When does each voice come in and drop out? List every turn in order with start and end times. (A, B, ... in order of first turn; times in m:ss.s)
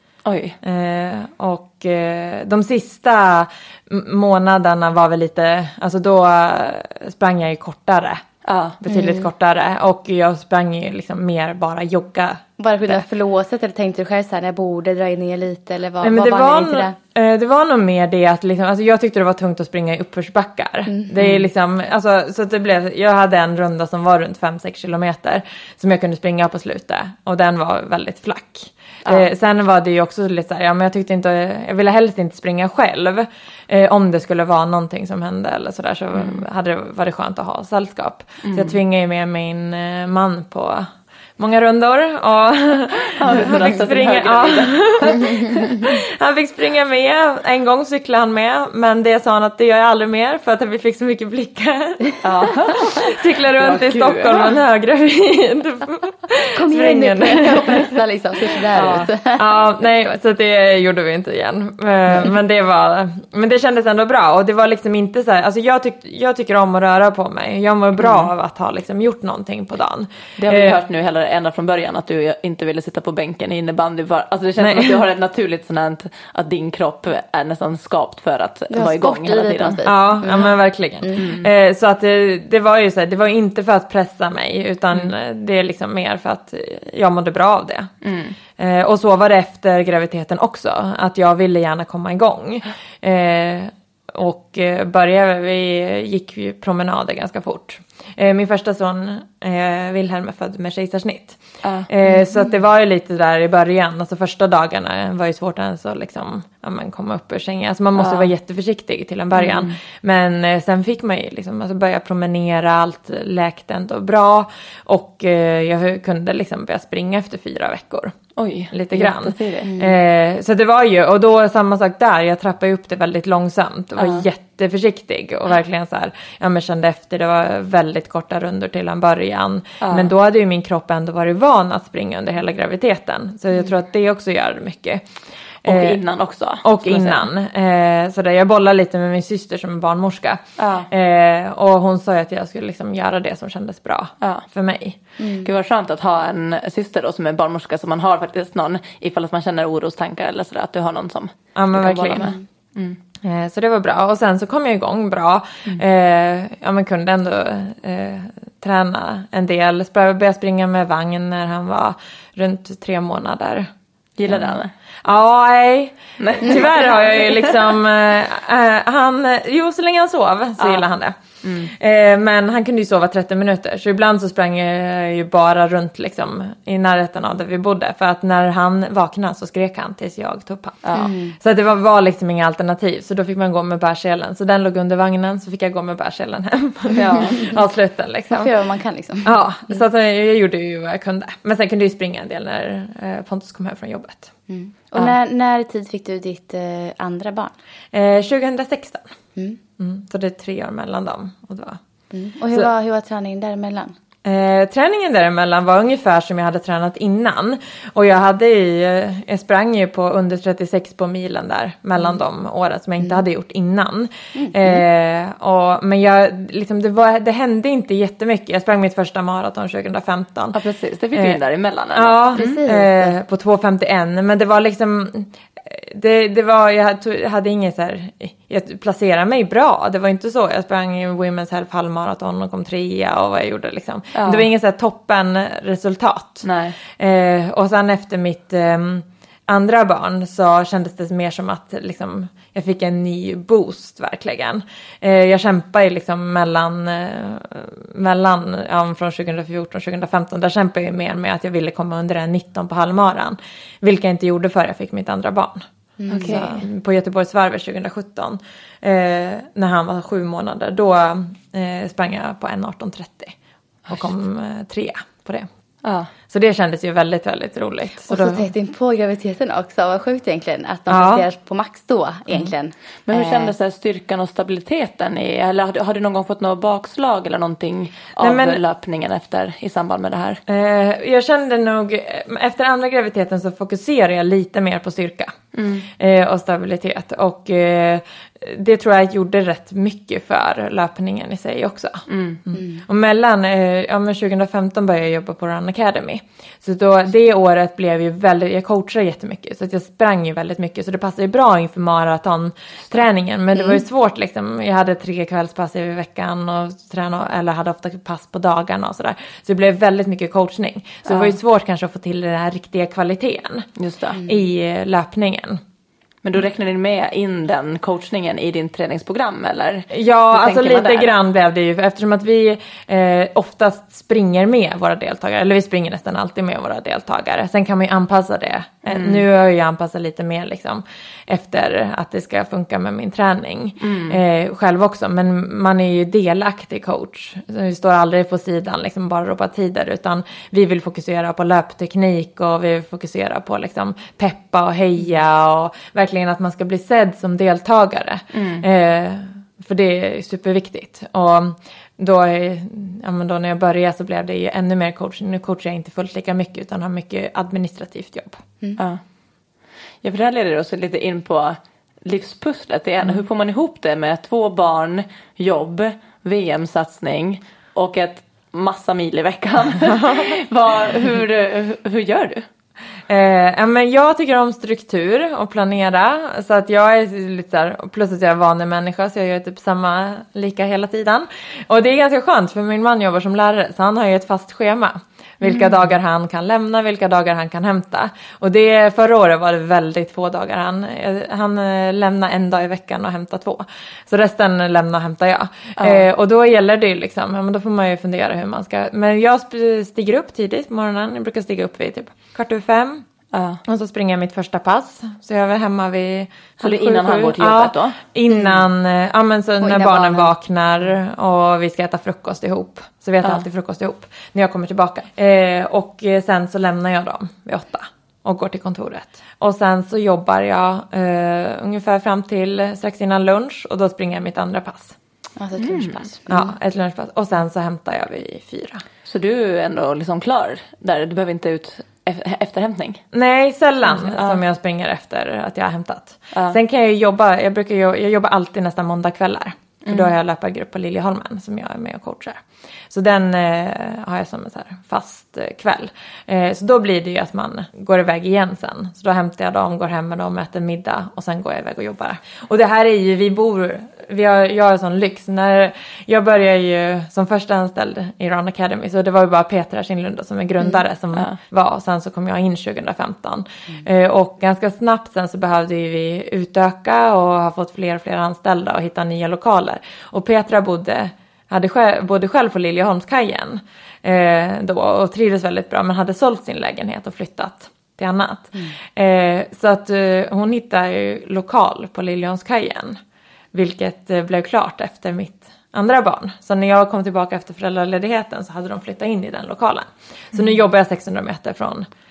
0:00.2-0:00.6 A
0:00.6-0:08.2 B
0:08.4-0:08.8 A
0:08.8-0:13.0 B
0:08.9-0:09.2 C
0:12.6-0:16.9 C
0:16.0-0:58.0 B
0:21.2-0:21.4 A
0:38.4-0:38.8 A
0:43.2-0:45.7 A
0:52.2-0:54.5 A
0:56.5-0:59.4 C
0:58.8-0:59.1 A
0:59.4-1:10.8 B
1:08.0-1:08.3 A
1:10.4-1:19.8 A
1:14.6-1:15.0 B
1:18.7-1:21.2 C
1:19.8-1:27.9 B
1:21.2-1:21.5 A
1:28.0-1:28.3 A
1:28.6-1:58.2 B
1:41.6-1:41.9 A
1:48.0-1:48.3 A
1:49.4-1:49.7 A
1:58.4-1:59.7 A
1:58.7-2:15.0 B
1:59.6-2:00.0 C
2:04.0-2:04.2 A
2:09.8-2:10.1 A
2:15.6-2:16.0 B
2:15.6-2:17.2 A
2:16.6-2:25.0 B
2:20.6-2:20.9 A
2:25.2-2:25.5 C
2:25.4-2:33.0 A
2:31.6-2:32.3 B
2:33.2-2:43.7 B
2:44.2-2:44.7 A
2:44.3-3:08.5 B
2:46.2-2:47.6 A
2:51.4-2:51.7 A
3:00.8-3:01.1 A
3:00.9-3:01.3 C
3:07.0-3:07.4 A
3:08.3-3:09.8 C
3:09.2-3:14.3 B
3:14.5-3:17.5 C
3:17.9-3:19.1 B
3:19.8-3:21.8 B
3:22.1-3:23.9 C
3:24.2-3:40.6 B
3:34.3-3:34.8 C
3:40.5-3:42.6 A
3:41.1-3:41.4 B
3:41.9-4:15.6 B
3:42.3-3:43.2 C
3:54.2-3:54.5 A
3:56.4-3:56.8 A
4:16.0-4:16.5 C
4:16.1-4:16.5 A
4:16.3-4:23.3 B
4:23.9-4:25.5 B
4:25.8-4:26.1 A
4:26.3-4:28.4 B
4:28.1-4:33.5 C
4:30.9-4:31.2 B
4:33.1-4:40.4 A
4:38.2-4:38.6 B
4:40.5-4:45.3 B
4:45.5-4:45.9 A
4:45.9-5:13.7 B
4:52.1-4:52.4 A
5:11.0-5:11.3 A
5:13.8-5:14.2 A
5:14.2-5:15.6 B
5:16.2-5:21.1 A
5:19.9-5:58.4 B
5:28.8-5:29.2 A
5:33.8-5:34.2 A
5:48.3-5:48.6 A
6:00.0-6:12.4 A
6:13.1-6:43.0 B
6:25.4-6:25.8 A
6:35.8-6:36.0 A
6:43.3-6:43.6 A
6:43.6-7:05.0 B
6:46.6-6:48.0 A
6:48.3-6:48.6 C
6:49.6-6:50.3 C
7:05.4-7:06.5 C
7:05.6-7:06.0 A
7:06.3-7:08.8 B
7:09.0-7:13.0 A
7:13.1-8:03.0 B
7:13.9-7:14.4 A
7:19.9-7:20.1 A
8:03.5-8:11.9 B